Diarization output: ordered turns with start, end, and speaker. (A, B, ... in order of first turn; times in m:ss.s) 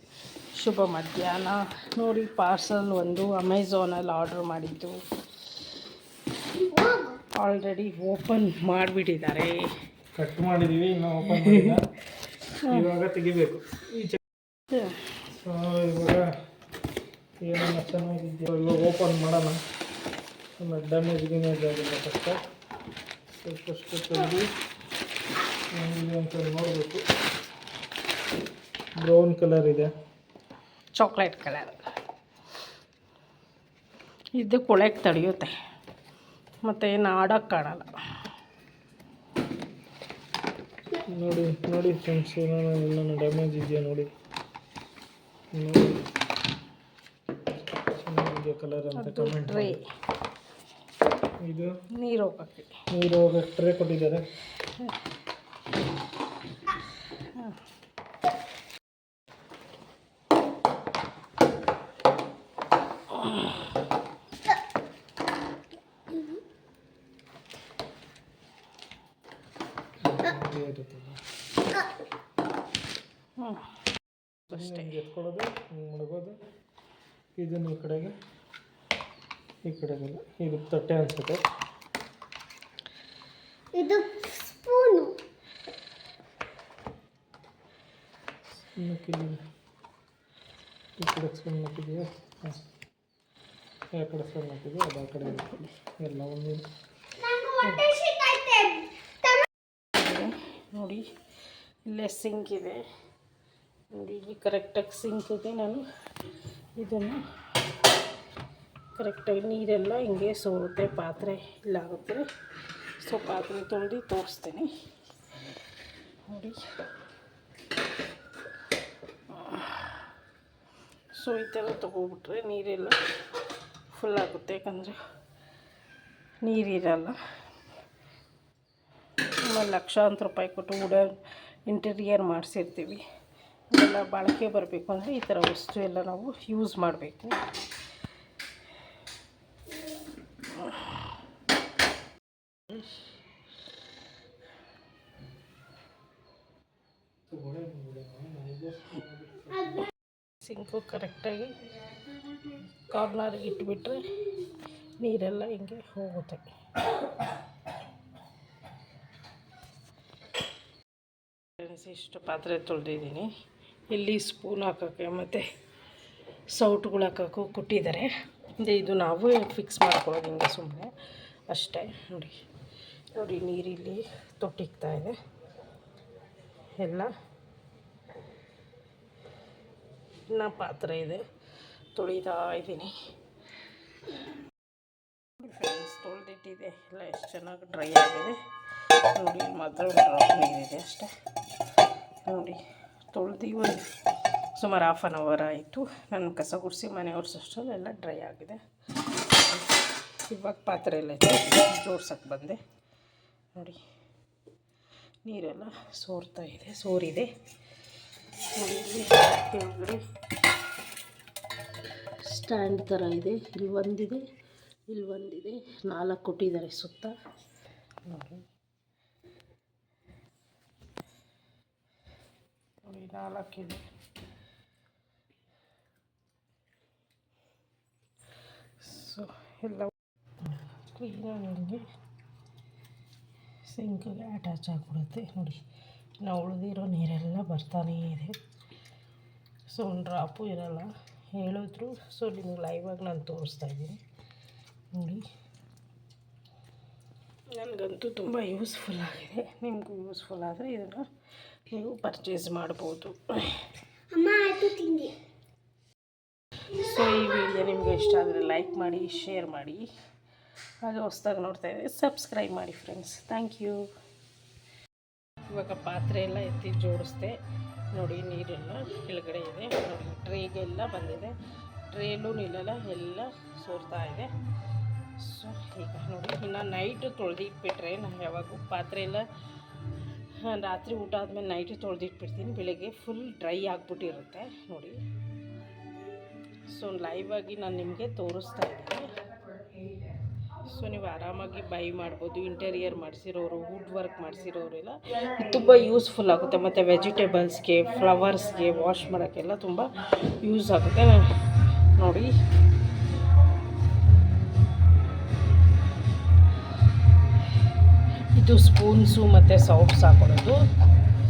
0:00.5-0:05.0 A
0:06.8-0:07.0 B
0:07.3-0:09.7 A
0:10.2-0:11.9 C
0:11.3-0:11.7 A
0:12.6-0:14.2 C
0:14.7-0:15.2 A
0:15.3-0:16.3 C
0:17.4-0:19.6 C
0:20.6-0:22.4 C
0:23.4-0:24.5 C
0:25.7-0:27.0 C
0:29.0-0:29.9 C
0:31.0-0:31.8 A
0:34.4-0:35.6 A
0:36.6-0:37.9 A
0:41.1-0:44.1 C
0:45.5-0:46.0 C
0:47.5-0:49.8 C
0:49.0-0:49.8 A
0:51.4-0:51.7 C
0:51.9-0:52.8 A
0:52.9-0:54.3 C
0:54.6-0:55.0 A
0:57.2-0:57.6 A
1:10.0-1:11.2 C
1:13.4-1:13.7 A
1:14.5-1:14.8 A
1:14.5-1:16.4 C
1:17.4-1:18.1 C
1:19.7-1:21.4 C
1:23.7-1:25.2 B
1:28.8-1:29.4 C
1:31.0-1:32.6 C
1:34.0-1:36.6 C
1:37.3-1:38.8 B
1:37.6-1:38.0 A
1:39.9-1:41.0 A
1:41.9-1:42.8 A
1:43.9-1:45.8 A
1:46.8-1:47.2 A
1:49.0-1:52.3 A
1:53.0-1:54.7 A
1:56.3-1:56.6 A
1:59.3-2:00.0 A
2:01.2-2:03.0 A
2:03.9-2:05.0 A
2:06.4-2:07.2 A
2:09.4-2:13.0 A
2:13.7-2:17.4 A
2:20.6-2:20.9 A
2:27.3-2:29.9 C
2:30.4-2:31.8 A
2:32.9-2:36.5 A
2:41.6-2:43.3 A
2:43.9-2:45.5 A
2:46.5-2:50.9 A
2:51.5-2:52.4 A
2:53.2-2:55.2 A
2:56.8-2:57.1 A
3:00.3-3:01.2 A
3:02.0-3:03.0 A
3:05.4-3:08.4 A
3:08.9-3:11.1 A
3:12.2-3:13.9 A
3:14.6-3:18.6 A
3:19.3-3:19.6 A
3:20.2-3:22.6 A
3:23.6-3:23.8 A
3:25.2-3:27.3 A
3:28.6-3:30.0 A
3:32.2-3:34.2 A
3:34.9-3:37.1 A
3:38.1-3:38.5 A
3:42.8-3:43.8 A
3:48.8-3:51.8 A
3:53.7-3:55.6 A
3:56.2-3:58.4 A
3:59.7-4:04.0 A
4:04.9-4:05.3 A
4:07.5-4:11.1 A
4:11.7-4:13.7 A
4:14.1-4:15.2 B
4:16.7-4:19.9 A
4:20.8-4:23.9 A
4:25.5-4:27.4 A
4:27.9-4:31.3 A
4:31.9-4:34.3 A
4:35.2-4:39.2 A
4:40.4-4:45.0 A
4:46.7-4:49.2 A
4:50.7-5:01.2 A
5:02.0-5:02.3 A
5:08.3-5:10.6 A